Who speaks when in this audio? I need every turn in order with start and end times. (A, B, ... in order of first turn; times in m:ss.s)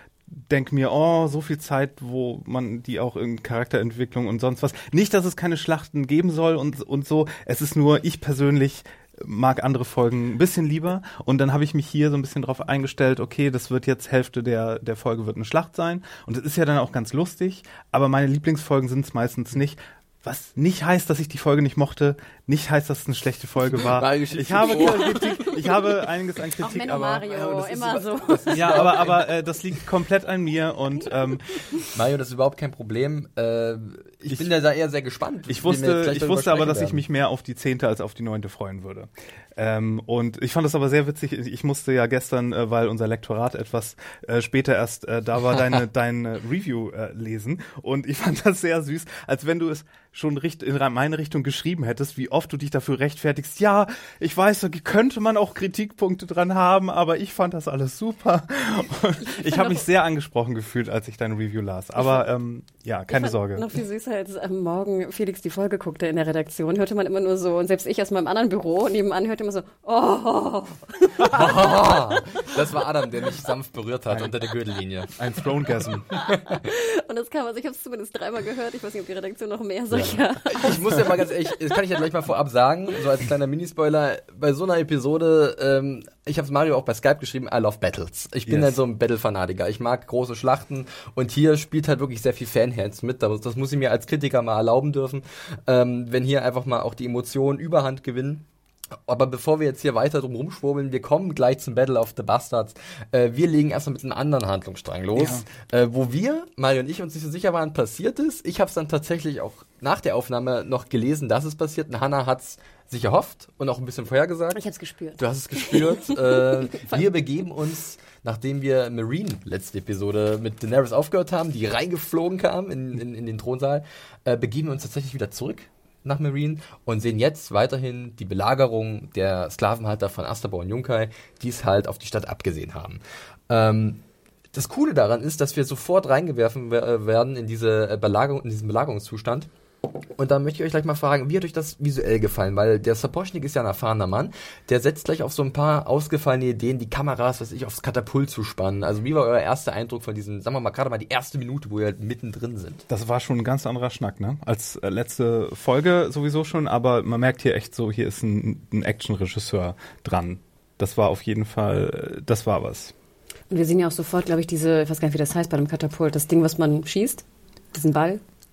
0:00.5-0:27.2 A
0:23.7-0:25.5 B
0:25.2-0:25.5 C
0:26.6-0:29.0 C
0:27.2-0:29.3 B
0:28.5-0:31.7 A
0:31.9-0:37.0 B
0:35.5-1:03.7 A
0:59.2-0:59.8 C
1:02.0-1:02.2 C
1:03.1-1:11.9 C
1:11.2-1:15.2 B
1:15.2-1:16.1 A
1:16.1-1:21.2 C
1:16.3-1:16.6 B
1:19.9-1:38.4 B
1:28.5-1:28.7 A
1:39.0-1:54.6 B
1:45.2-1:45.4 A
1:54.5-1:57.0 C
1:55.2-2:14.0 B
2:14.5-2:19.5 B
2:20.2-2:32.8 B
2:32.9-2:42.9 A
2:43.5-2:48.2 C